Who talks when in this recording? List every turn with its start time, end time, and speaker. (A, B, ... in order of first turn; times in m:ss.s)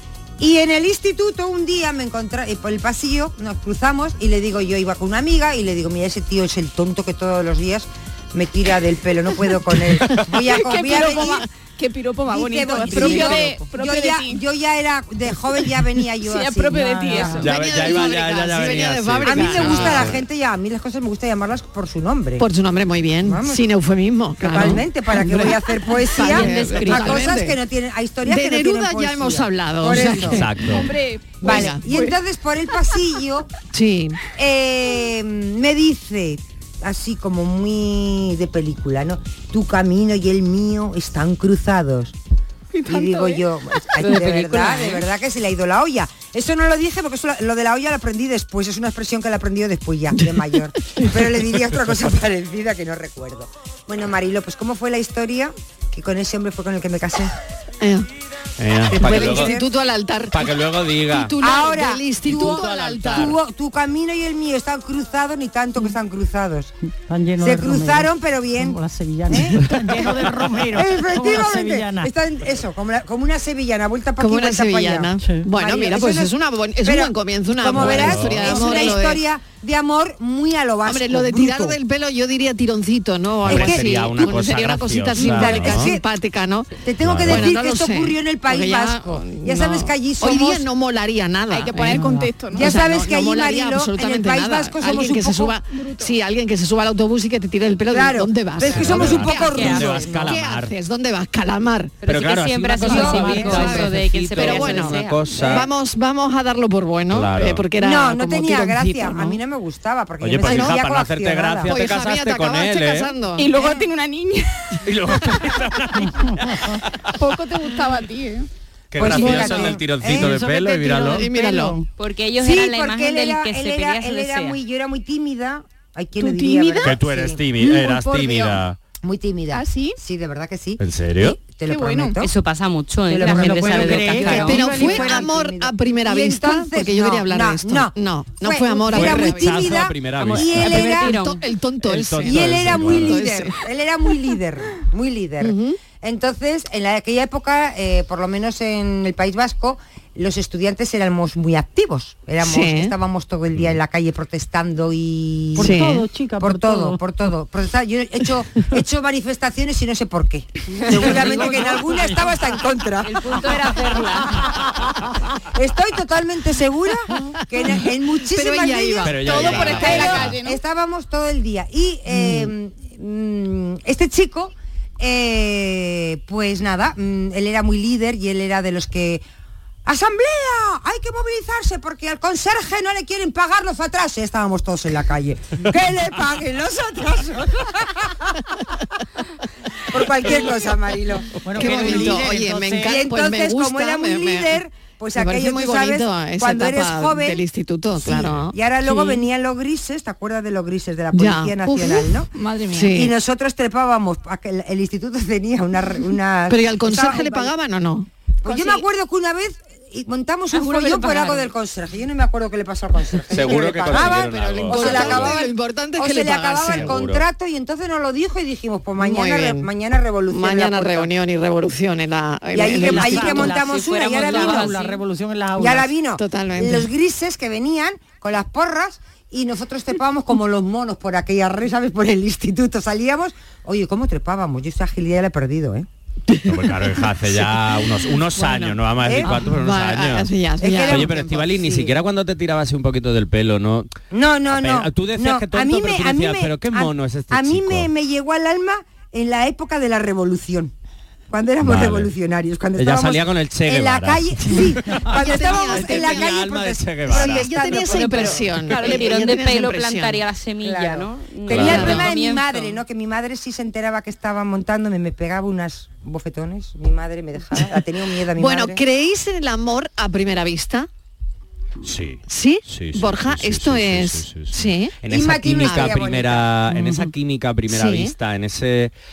0:00.4-0:11.4 A
0:10.4-0:14.4 B
0:12.3-0:17.5 A
0:13.0-0:13.2 C
0:16.2-0:17.9 B
0:16.7-0:17.4 D
0:17.4-0:20.2 C
0:17.4-0:20.2 E
0:19.2-0:22.4 A
0:22.4-0:27.6 C
0:23.2-0:23.7 A
0:24.4-0:30.4 A
0:26.2-0:27.3 F
0:28.2-0:30.8 C
0:30.3-0:30.9 E
0:30.6-0:32.0 B
0:31.4-0:33.5 A
0:31.4-0:32.1 C
0:33.7-0:34.2 C
0:34.3-0:42.2 A
0:42.7-0:43.4 B
0:42.8-0:57.3 A
0:44.0-0:45.0 F
0:50.2-0:50.4 C
0:51.0-0:51.2 C
0:57.8-0:58.1 C
0:58.6-0:59.5 E
0:58.9-1:00.5 C
0:58.9-0:59.7 A
1:00.3-1:01.4 E
1:01.1-1:03.4 C
1:01.4-1:06.7 A
1:02.2-1:03.4 E
1:07.1-1:12.1 D
1:07.4-1:09.6 A
1:10.7-1:21.8 A
1:14.2-1:19.2 C
1:17.7-1:18.9 E
1:20.8-1:26.7 C
1:23.5-1:24.4 A
1:23.5-1:25.9 E
1:25.2-1:26.0 A
1:26.8-1:30.6 A
1:27.0-1:27.5 E
1:27.2-1:42.0 C
1:31.5-1:32.8 B
1:31.8-1:32.3 D
1:32.5-1:35.6 A
1:35.7-1:36.1 B
1:37.9-1:40.4 A
1:38.6-1:40.7 E
1:39.1-1:40.0 F
1:42.0-1:45.1 F
1:42.0-1:45.7 E
1:42.8-1:49.4 C
1:42.8-1:43.7 A
1:47.1-1:47.6 E
1:47.8-1:51.7 A
1:50.2-1:53.1 E
1:50.4-1:50.8 C
1:51.6-1:53.5 C
1:53.4-1:55.4 B
1:53.5-1:53.8 A
1:54.8-1:56.6 E
1:56.1-1:56.8 D
1:57.1-1:58.5 B
1:58.9-2:01.2 E
1:58.9-2:00.3 A
1:59.0-2:01.9 D
2:01.0-2:01.8 C
2:02.0-2:04.6 F
2:02.4-2:07.4 A
2:06.2-2:06.9 C
2:06.8-2:08.8 E
2:07.6-2:08.6 B
2:09.0-2:12.3 A
2:09.5-2:10.0 B
2:10.8-2:11.4 E
2:11.6-2:12.2 B
2:12.2-2:14.6 F
2:13.1-2:21.1 A
2:13.2-2:15.3 D
2:14.3-2:19.6 C
2:18.9-2:21.2 E
2:20.2-2:21.5 F
2:20.4-2:23.6 C
2:21.8-2:23.2 E
2:22.2-2:35.8 A
2:25.4-2:25.8 C
2:32.4-2:32.9 C
2:35.5-2:37.0 D
2:35.6-2:36.0 C
2:36.4-2:44.5 A
2:41.0-2:42.2 D
2:41.0-2:41.7 F
2:43.0-2:44.5 F
2:45.5-2:59.2 A
2:47.1-2:50.3 C
2:49.0-2:50.4 E
2:49.2-2:50.6 B
2:59.8-3:08.1 A
3:09.9-3:12.3 A
3:11.4-3:13.0 D
3:11.5-3:14.6 C
3:12.8-3:17.4 A
3:15.2-3:18.6 C
3:18.0-3:22.3 A
3:21.1-3:22.1 C
3:22.4-3:22.9 B
3:22.7-3:23.1 C
3:22.9-3:27.5 A
3:26.5-3:28.1 C
3:28.4-3:41.1 A
3:30.5-3:31.5 F
3:33.3-3:35.4 E
3:33.9-3:34.2 D
3:34.7-3:37.0 C
3:36.7-3:37.2 E
3:39.0-3:39.7 C
3:40.3-3:43.5 C
3:42.5-3:44.7 A
3:42.7-3:45.9 D
3:43.6-3:45.0 F
3:45.6-3:55.9 A
3:46.2-3:46.9 C
3:56.4-4:03.9 E
3:58.4-4:01.1 C
3:59.0-3:59.3 A
4:00.6-4:01.9 A
4:04.1-4:10.7 A
4:04.5-4:07.9 E
4:11.3-4:18.6 A
4:11.6-4:12.1 E
4:12.8-4:18.0 E
4:15.1-4:16.3 C
4:17.1-4:20.2 C
4:17.9-4:22.8 F
4:20.6-4:28.8 A
4:21.5-4:22.1 E
4:21.6-4:22.0 C
4:28.4-4:30.9 C
4:31.8-4:38.9 E
4:32.3-4:35.0 C
4:35.1-4:36.5 A
4:35.6-4:36.0 C
4:37.7-4:38.1 C